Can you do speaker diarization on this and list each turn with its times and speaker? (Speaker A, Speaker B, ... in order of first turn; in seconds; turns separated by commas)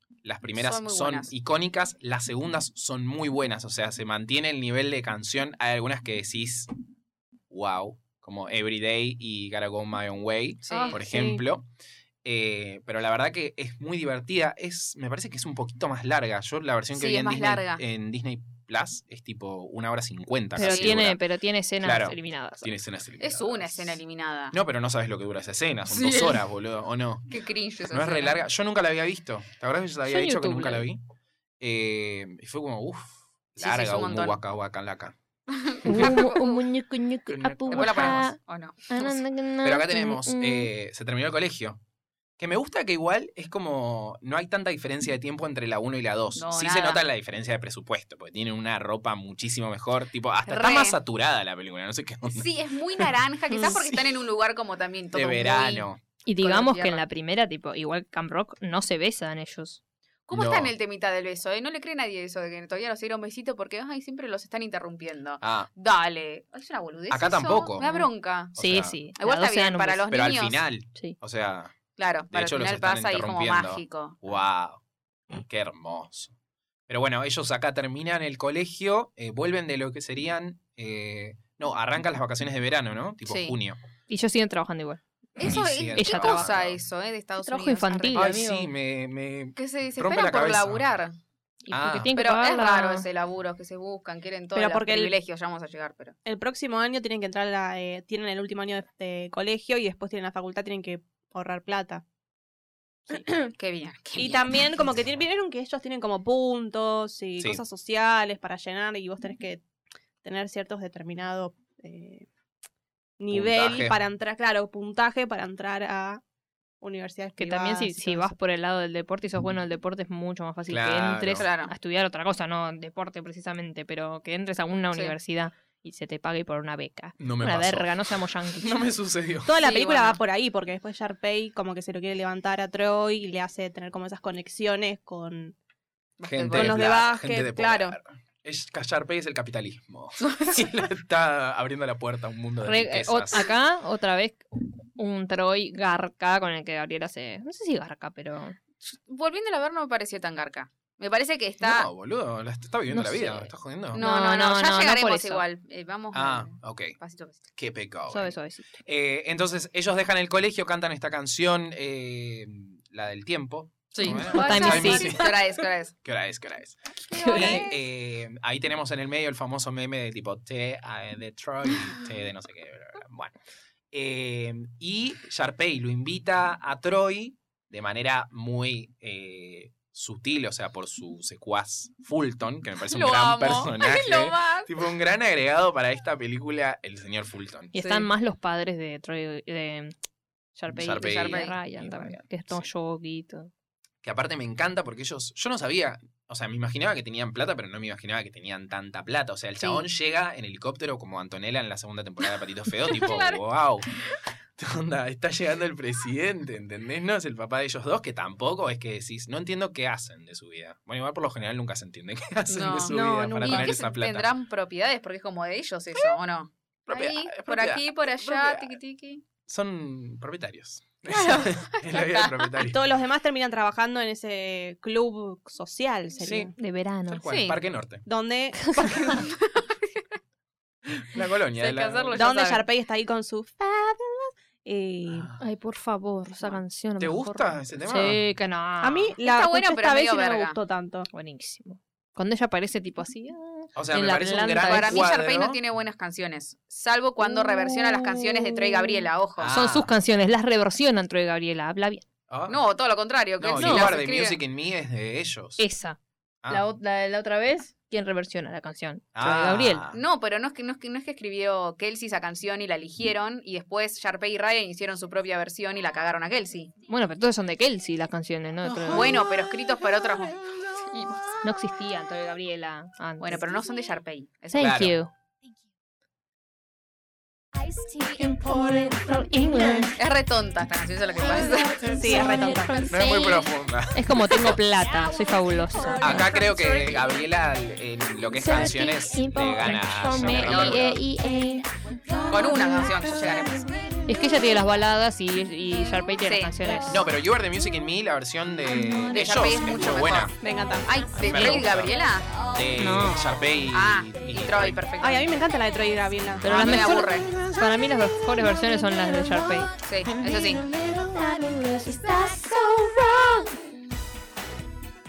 Speaker A: 0.2-6.7, Speaker B: 0.6-1.3, Speaker A: 7.5-11.7, Speaker B: 10.7-11.0, Speaker C: 10.7-11.4, Speaker A: 12.2-21.2, Speaker B: 16.9-17.8, Speaker D: 20.6-22.7, Speaker B: 20.6-21.0, Speaker A: 21.8-24.0, Speaker B: 23.2-24.6, Speaker A: 24.5-27.4, Speaker B: 25.9-26.4, Speaker B: 27.3-28.4, Speaker A: 27.9-31.0, Speaker D: 30.1-30.9, Speaker A: 31.6-35.1, Speaker B: 33.6-34.4, Speaker B: 35.5-36.6, Speaker D: 35.9-38.4, Speaker A: 37.3-38.3, Speaker B: 37.7-39.2, Speaker D: 38.9-40.7, Speaker A: 39.6-41.8, Speaker A: 42.4-54.1, Speaker B: 46.4-47.0, Speaker B: 50.5-51.0, Speaker B: 52.3-55.9, Speaker A: 55.1-56.0, Speaker D: 56.2-59.8, Speaker B: 56.4-57.0, Speaker B: 60.3-68.6, Speaker A: 60.3-60.7, Speaker A: 65.4-65.7, Speaker A: 67.1-67.9, Speaker D: 67.8-70.0, Speaker A: 68.5-69.0, Speaker B: 69.2-70.6, Speaker A: 70.1-71.8, Speaker B: 72.0-74.3, Speaker A: 72.3-74.8, Speaker A: 75.5-76.3, Speaker A: 76.9-83.8, Speaker B: 83.2-83.6, Speaker D: 84.1-86.5, Speaker B: 85.4-88.3, Speaker A: 85.5-86.8, Speaker D: 87.4-88.7, Speaker A: 88.1-90.8, Speaker B: 89.6-91.2, Speaker D: 91.6-93.1, Speaker A: 91.7-92.1, Speaker B: 92.2-96.2, Speaker C: 94.5-95.1, Speaker C: 96.2-102.0, Speaker C: 103.1-103.5, Speaker B: 103.4-104.6, Speaker C: 104.2-109.6, Speaker C: 110.2-112.3, Speaker C: 113.2-116.2, Speaker A: 113.3-114.0, Speaker C: 116.8-118.3, Speaker D: 117.4-128.9, Speaker A: 120.7-121.5, Speaker B: 121.4-121.7, Speaker A: 127.2-127.9, Speaker A: 128.6-129.5, Speaker C: 129.4-135.6, Speaker B: 129.6-130.2, Speaker B: 136.2-136.9, Speaker A: 136.2-143.5, Speaker C: 136.5-138.0, Speaker B: 140.2-140.7, Speaker D: 142.7-148.6, Speaker B: 148.8-151.9, Speaker A: 151.6-154.0, Speaker D: 152.9-155.4, Speaker B: 153.9-157.4, Speaker A: 156.1-157.0, Speaker A: 157.6-165.4, Speaker D: 158.1-158.8, Speaker B: 163.9-165.9, Speaker D: 164.1-165.3, Speaker A: 166.0-173.4, Speaker D: 167.1-167.7, Speaker A: 173.9-187.8, Speaker B: 182.9-184.7, Speaker D: 187.8-189.9, Speaker B: 187.8-188.1, Speaker D: 190.6-193.5, Speaker A: 190.7-192.7, Speaker B: 190.8-191.6, Speaker A: 194.0-203.9, Speaker B: 202.9-203.4, Speaker A: 204.6-214.3, Speaker B: 212.5-219.2, Speaker C: 212.9-213.8, Speaker A: 216.9-218.8, Speaker A: 219.4-222.8, Speaker B: 221.3-222.5, Speaker C: 222.6-226.5, Speaker A: 226.2-226.5, Speaker D: 226.6-227.2, Speaker A: 227.1-228.1, Speaker B: 227.3-227.6, Speaker C: 228.1-229.2, Speaker D: 228.6-229.0, Speaker B: 228.9-230.1, Speaker A: 230.9-232.2, Speaker B: 231.6-232.7, Speaker C: 232.1-235.3, Speaker A: 235.1-235.4, Speaker D: 235.4-239.2, Speaker A: 237.0-238.2, Speaker C: 238.8-241.1, Speaker B: 239.2-240.6, Speaker D: 241.1-245.1, Speaker A: 243.8-245.6, Speaker B: 244.7-249.5, Speaker A: 249.4-249.9, Speaker D: 249.5-252.1, Speaker A: 252.3-252.6, Speaker B: 252.5-254.4, Speaker A: 253.4-255.6, Speaker D: 253.6-253.9, Speaker D: 255.6-259.8, Speaker A: 259.1-260.0, Speaker B: 259.9-266.7, Speaker D: 266.9-269.2, Speaker A: 268.6-269.0, Speaker E: 268.9-269.6, Speaker B: 268.9-270.4, Speaker E: 270.5-271.0, Speaker B: 270.9-271.2, Speaker D: 271.4-273.4, Speaker B: 273.2-274.8, Speaker D: 274.5-275.1, Speaker A: 274.6-275.0, Speaker E: 277.6-280.0, Speaker D: 279.3-279.9, Speaker B: 280.0-281.8, Speaker E: 281.2-283.5, Speaker C: 281.9-282.8, Speaker A: 282.9-284.6, Speaker D: 283.9-286.3, Speaker E: 285.8-287.0, Speaker A: 286.0-291.0, Speaker D: 288.4-291.0, Speaker E: 288.4-293.8, Speaker B: 290.4-290.9, Speaker B: 292.3-293.6, Speaker D: 294.1-297.1, Speaker B: 296.2-296.6, Speaker A: 296.9-300.4, Speaker B: 299.0-300.3, Speaker C: 300.4-300.9, Speaker B: 300.9-302.3, Speaker A: 301.2-304.8, Speaker D: 301.4-301.6, Speaker D: 302.8-303.4, Speaker B: 303.7-305.3, Speaker C: 305.0-306.9, Speaker D: 306.4-309.7, Speaker B: 306.4-307.3, Speaker E: 306.9-308.4, Speaker E: 309.0-313.6, Speaker B: 309.8-310.6